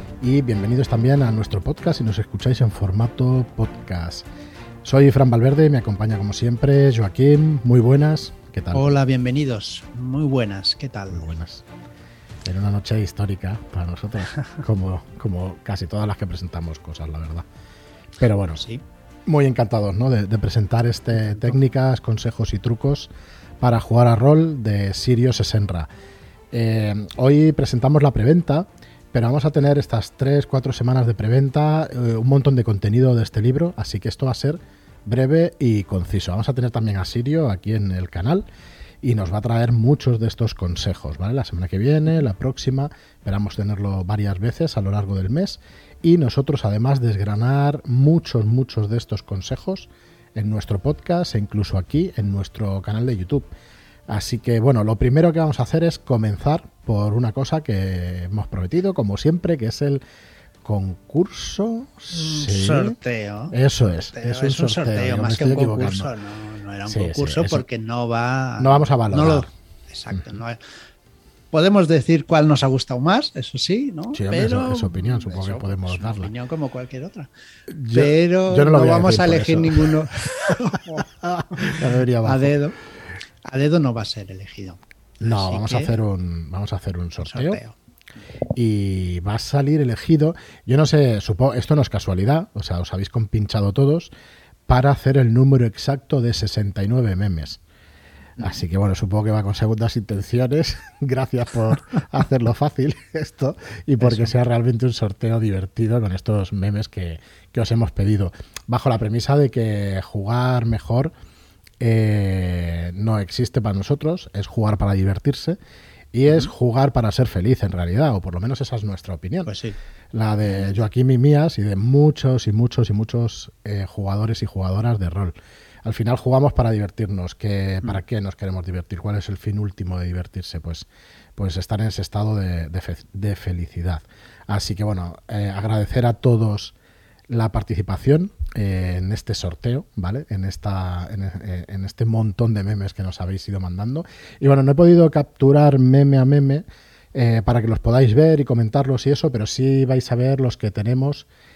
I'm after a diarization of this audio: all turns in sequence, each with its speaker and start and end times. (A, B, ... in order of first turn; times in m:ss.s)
0:00.2-0:04.3 A
0:04.8-0:09.0 A
0:08.7-0:11.2 B
0:11.1-0:11.6 A
0:12.4-0:17.4 A
0:18.2-0:18.6 A
0:18.6-0:18.8 B
0:19.3-0:23.1 A
0:21.2-0:21.6 B
0:23.6-0:25.9 A
0:26.5-0:38.5 A
0:39.0-0:53.5 A
0:54.1-1:00.0 A
1:00.6-1:03.0 A
1:02.1-1:03.6 B
1:03.5-1:06.1 A
1:04.1-1:10.6 B
1:06.9-1:07.6 A
1:08.6-1:09.5 A
1:11.5-1:17.3 B
1:14.1-1:16.3 A
1:17.7-1:20.5 A
1:17.9-1:22.8 B
1:21.2-1:22.5 A
1:23.4-1:26.0 B
1:25.2-1:27.6 A
1:27.2-1:27.8 B
1:28.5-1:34.1 A
1:34.7-1:37.6 A
1:38.4-1:51.1 A
1:44.0-1:44.4 B
1:51.8-1:55.6 A
1:56.1-1:59.5 A
1:59.5-1:59.8 B
2:00.1-2:16.7 A
2:00.4-2:00.8 B
2:17.3-2:31.3 A